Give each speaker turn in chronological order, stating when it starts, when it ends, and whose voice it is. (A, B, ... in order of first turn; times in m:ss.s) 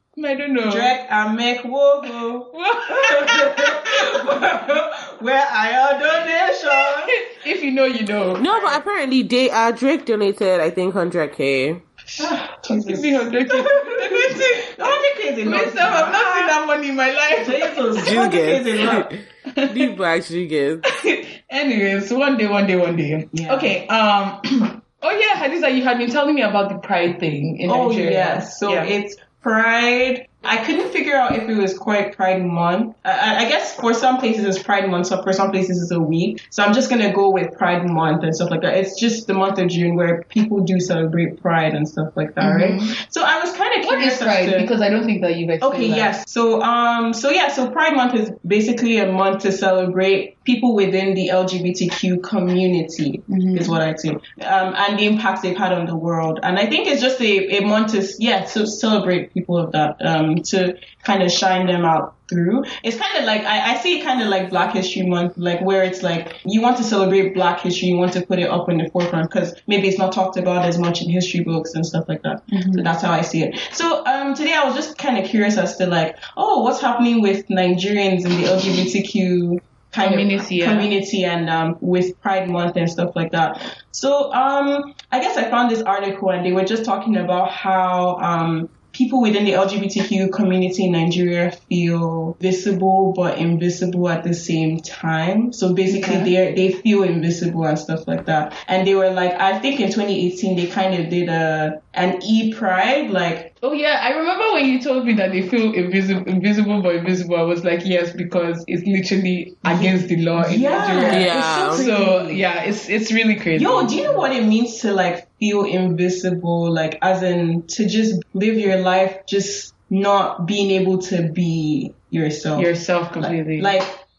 0:00.2-0:00.9 A
0:00.7-0:07.1 B
0:02.5-0:04.4 A
0:06.6-0:08.7 A
0:08.4-0:11.8 C
0:08.5-0:08.8 B
0:12.1-0:18.1 A
0:12.2-0:16.6 B
0:17.3-0:19.1 B
0:18.0-0:20.8 C
0:19.5-0:19.9 A
0:20.9-0:28.9 A
0:23.3-0:23.7 B
0:27.7-0:44.7 B
0:42.4-0:42.9 A
0:43.8-0:46.1 A
0:45.6-1:43.5 B
0:53.3-0:53.8 A
1:12.5-1:12.9 A
1:20.0-1:20.9 A
1:35.9-1:36.3 A
1:43.6-1:54.2 A
1:49.6-1:52.4 B
1:51.1-1:51.8 C
1:53.5-2:03.9 B
2:02.6-2:03.8 A